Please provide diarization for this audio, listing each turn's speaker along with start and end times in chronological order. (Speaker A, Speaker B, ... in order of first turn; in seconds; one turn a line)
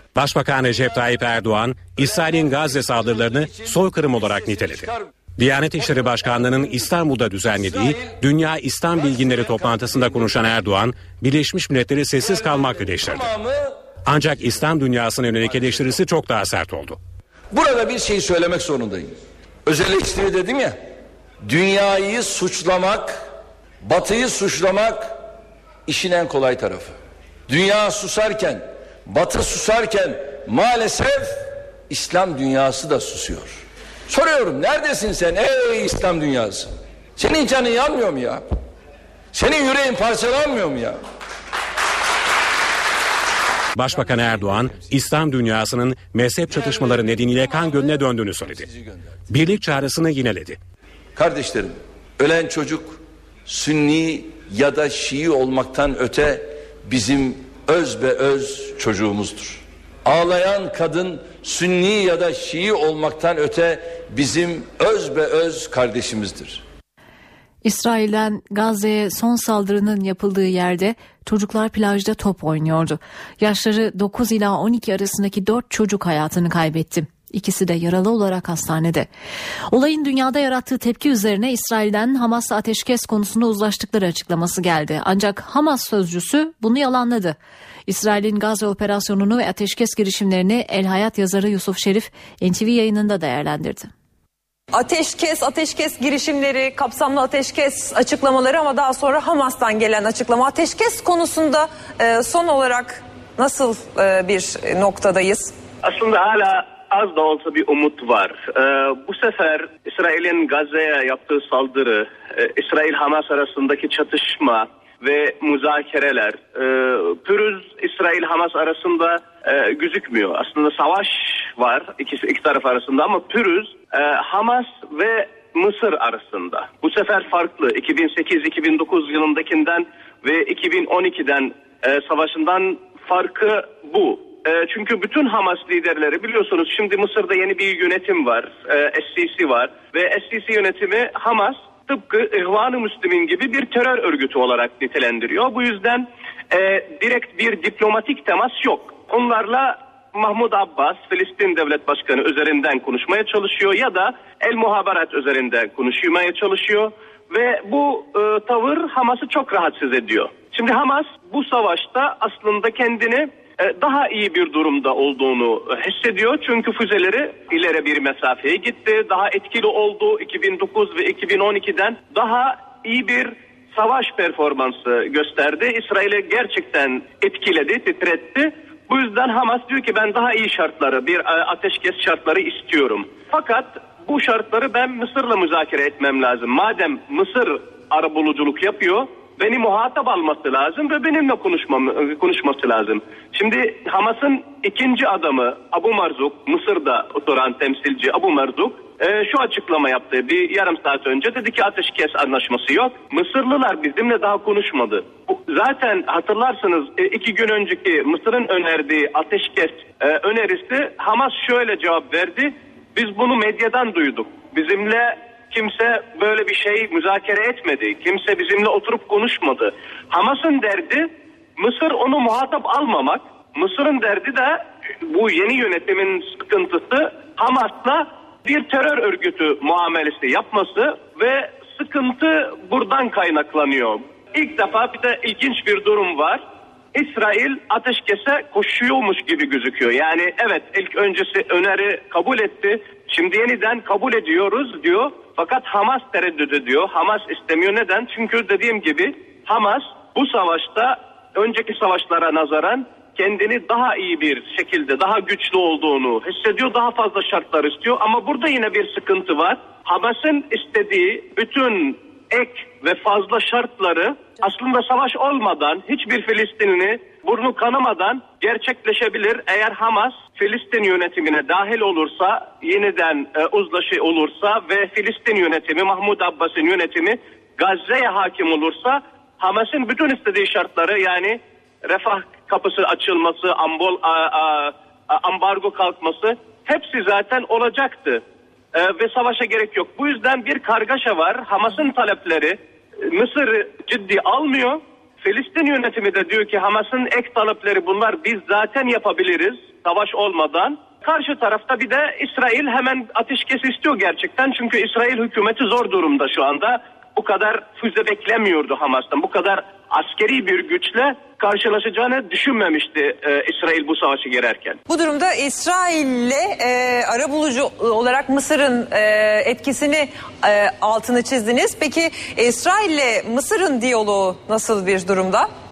Speaker A: 0.1-13.3
Speaker B: 3.0-5.1
Speaker B: 7.8-8.1
Speaker B: 12.3-13.7
Speaker A: 14.1-17.0
Speaker B: 17.5-19.1
Speaker B: 19.7-20.8
Speaker B: 21.4-23.2
Speaker B: 23.8-25.1
Speaker B: 25.9-26.9
Speaker B: 27.5-38.5
Speaker B: 39.3-41.0
Speaker A: 43.8-48.7
Speaker B: 48.6-49.0
Speaker A: 49.3-50.6
Speaker B: 51.1-66.6
Speaker C: 67.6-79.1
Speaker C: 79.7-93.9
Speaker D: 94.7-105.5
Speaker E: 105.8-236.4
Speaker E: 236.9-288.2
Speaker E: 288.7-314.8
Speaker D: 314.9-325.5